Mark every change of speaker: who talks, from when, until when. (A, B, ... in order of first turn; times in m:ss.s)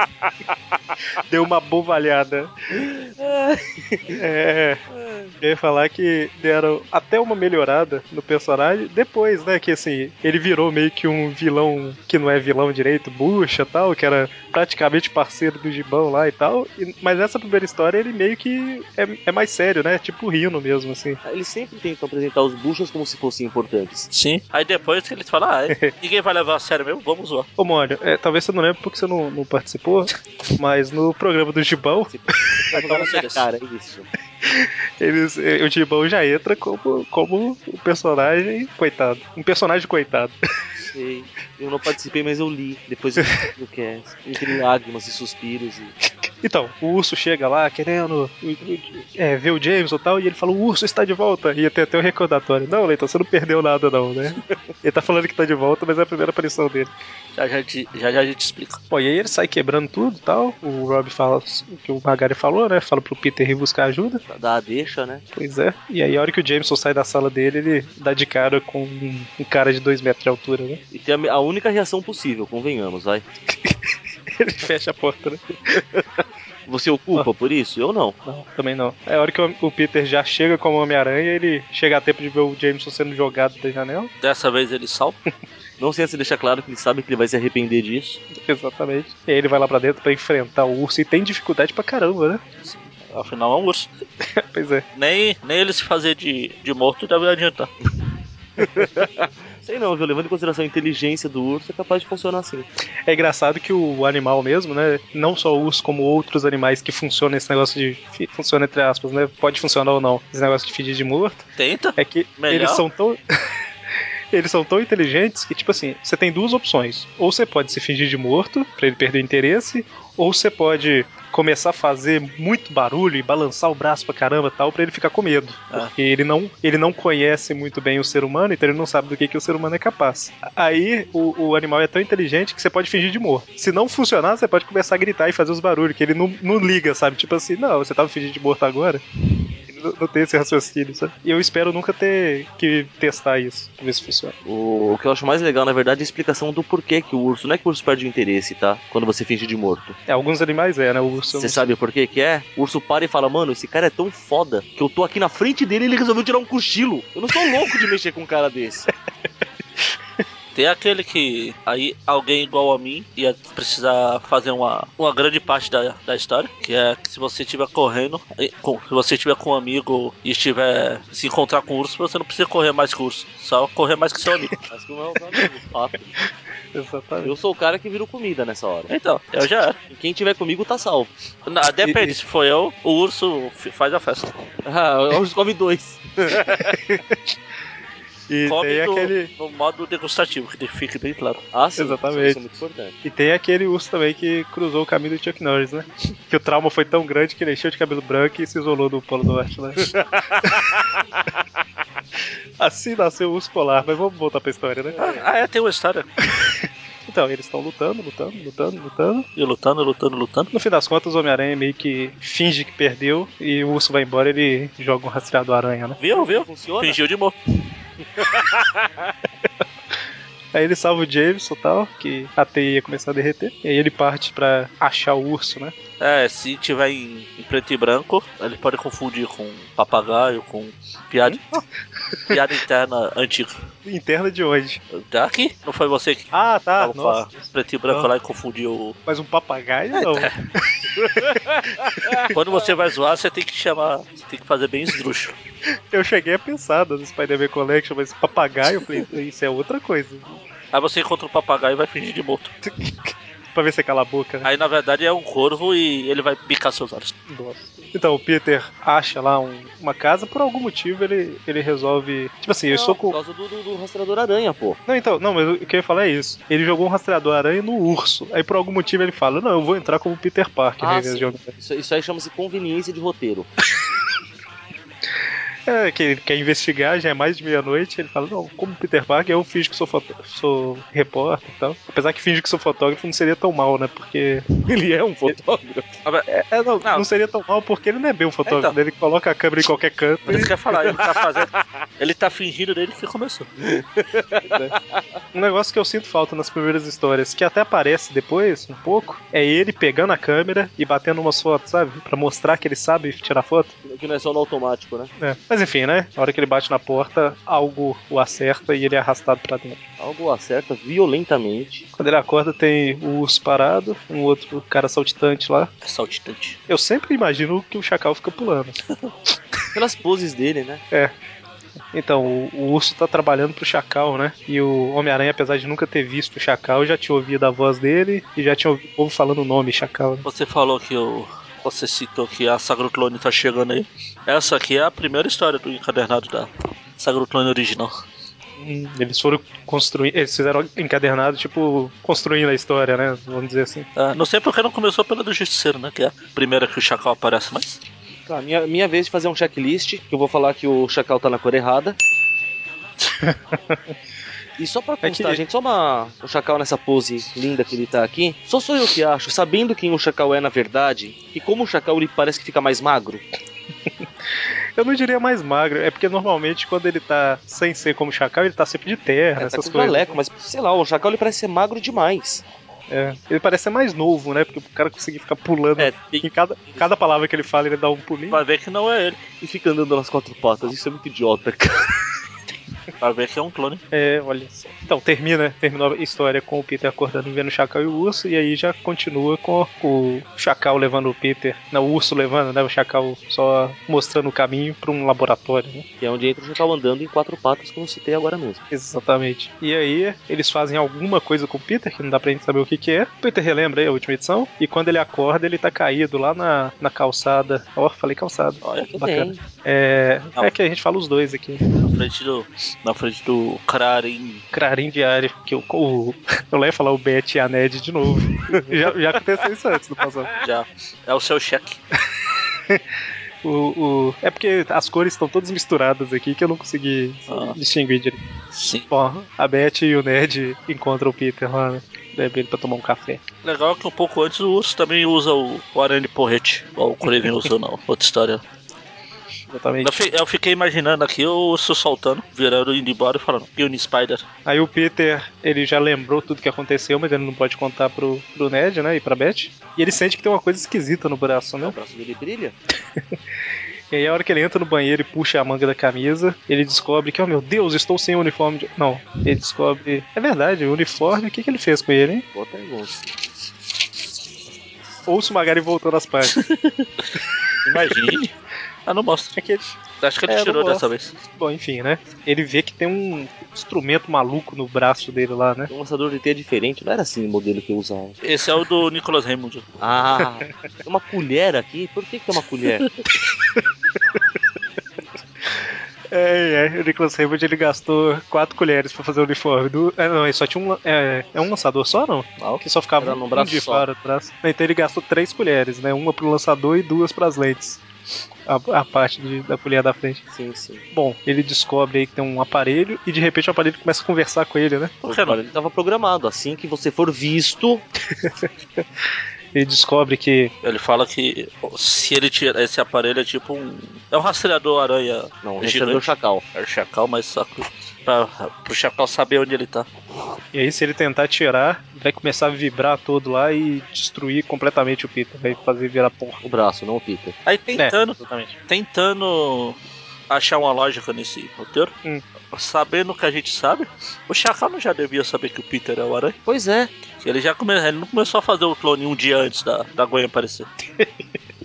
0:01.2-0:02.5 A
0:02.8-0:04.2 B
0:04.1-0:04.8 A
0:04.9-0:05.3 B
0:05.4-0:21.2 A
0:21.2-0:24.1 B
0:24.1-0:27.5 C
0:27.6-0:33.1 A
0:32.1-0:34.1 B
0:32.8-0:33.5 C
0:34.4-0:40.3 A
0:40.9-0:45.9 B
0:46.4-0:56.9 A
0:57.4-0:58.8 C
0:58.9-1:04.2 A
1:04.3-1:05.2 B
1:05.3-1:10.8 A
1:10.9-1:13.2 B
1:14.3-1:15.8 A
1:15.7-1:16.0 B
1:16.7-1:18.2 B
1:18.2-1:24.1 A
1:24.2-1:25.2 C
1:25.8-1:28.2 B
1:28.3-1:32.4 A
1:32.6-1:33.9 C
1:34.4-1:34.8 A
1:34.9-1:37.7 C
1:38.6-1:42.7 B
1:43.1-1:51.4 A
1:51.6-1:52.8 C
1:52.0-1:53.2 A
1:54.3-2:19.0 A
2:19.7-2:24.4 A
2:24.4-2:30.0 B
2:30.1-2:31.6 A
2:31.3-2:38.9 B
2:40.5-2:54.5 C
2:54.7-2:56.1 B
2:56.7-2:57.3 A
2:57.2-2:58.9 B
2:58.9-2:59.8 C
2:59.8-3:01.1 B
3:01.5-3:04.3 C
3:01.8-3:02.2 A
3:04.6-3:06.9 B
3:06.9-3:07.1 A
3:08.3-3:09.3 A
3:08.4-3:11.4 C
3:11.5-3:13.0 B
3:11.8-3:12.4 A
3:13.0-3:19.9 A
3:19.8-3:20.8 B
3:22.6-3:25.0 A
3:24.9-3:25.3 B
3:25.0-3:26.1 C
3:27.1-3:29.3 A
3:29.4-3:30.5 C
3:30.5-3:36.0 A
3:36.0-3:37.4 C
3:36.1-3:37.0 B
3:38.2-3:38.9 B
3:40.5-3:45.7 A
3:46.0-3:51.6 C
3:52.3-3:53.6 C
3:53.9-3:54.8 A
3:54.9-3:59.0 C
3:56.3-3:58.1 A
3:59.0-4:02.3 A
3:59.9-4:00.4 C
4:02.3-4:05.4 C
4:05.9-4:10.4 A
4:10.7-4:12.5 C
4:12.8-4:14.5 A
4:14.4-4:17.1 C
4:17.3-4:23.2 A
4:22.7-4:24.8 B
4:24.9-4:31.5 A
4:30.8-4:33.5 B
4:35.7-4:44.4 A
4:44.6-4:46.0 B
4:46.3-4:50.5 A
4:48.4-4:48.7 C
4:50.3-4:53.5 C
4:50.4-4:51.4 B
4:53.6-4:55.0 B
4:55.3-5:03.7 A
5:03.8-5:05.1 B
5:05.2-5:09.8 A
5:10.0-5:11.8 B
5:12.0-5:15.7 A
5:15.8-5:16.6 C
5:16.7-5:18.8 A
5:19.7-5:20.8 B
5:21.9-5:30.2 A
5:30.2-5:37.9 C
5:38.6-5:43.9 A
5:44.0-5:47.7 C
5:48.3-5:52.0 B
5:53.2-5:53.8 A
5:54.6-6:03.2 B
5:55.0-5:55.4 A
6:04.8-6:10.2 A
6:09.4-6:12.4 B
6:12.9-6:18.4 A
6:15.8-6:16.9 B
6:18.3-6:19.2 C
6:19.4-6:22.1 B
6:23.0-6:23.8 C
6:23.9-6:35.8 A
6:36.0-6:38.6 B
6:38.7-6:51.6 A
6:48.6-6:48.9 C
6:48.9-6:49.4 B
6:51.7-6:54.4 C
6:54.5-7:00.3 A
7:00.4-7:01.8 C
7:03.4-7:08.2 A
7:07.3-7:07.6 C
7:08.5-7:08.9 C
7:08.9-7:13.2 A
7:13.4-7:18.4 C
7:19.5-7:20.0 A
7:19.8-7:24.2 C
7:24.4-7:31.7 A
7:31.6-7:32.6 B
7:33.9-7:42.2 A
7:42.3-7:43.0 B
7:45.1-7:46.4 A
7:46.3-7:46.7 C
7:47.6-7:48.3 C
7:48.9-7:49.4 C
7:49.4-7:49.6 A
7:50.0-7:51.1 C
7:50.3-7:50.8 A
7:51.4-7:55.7 A
7:55.7-7:58.2 B
7:58.2-7:59.6 C
7:59.8-8:02.9 B
8:05.5-8:17.8 A
8:13.0-8:13.9 B
8:18.5-8:20.2 A
8:20.3-8:20.8 B
8:20.9-8:24.9 A
8:25.0-8:25.4 C
8:25.0-8:27.8 B
8:28.2-8:28.5 A
8:29.5-8:30.5 A
8:30.6-8:39.9 C
8:35.4-8:36.4 B
8:40.5-8:46.4 A
8:46.4-8:47.4 B
8:47.4-8:49.8 C
8:47.7-8:48.6 A
8:50.3-8:51.9 C
8:52.5-8:56.4 C
8:56.4-8:56.9 B
8:57.2-9:00.7 C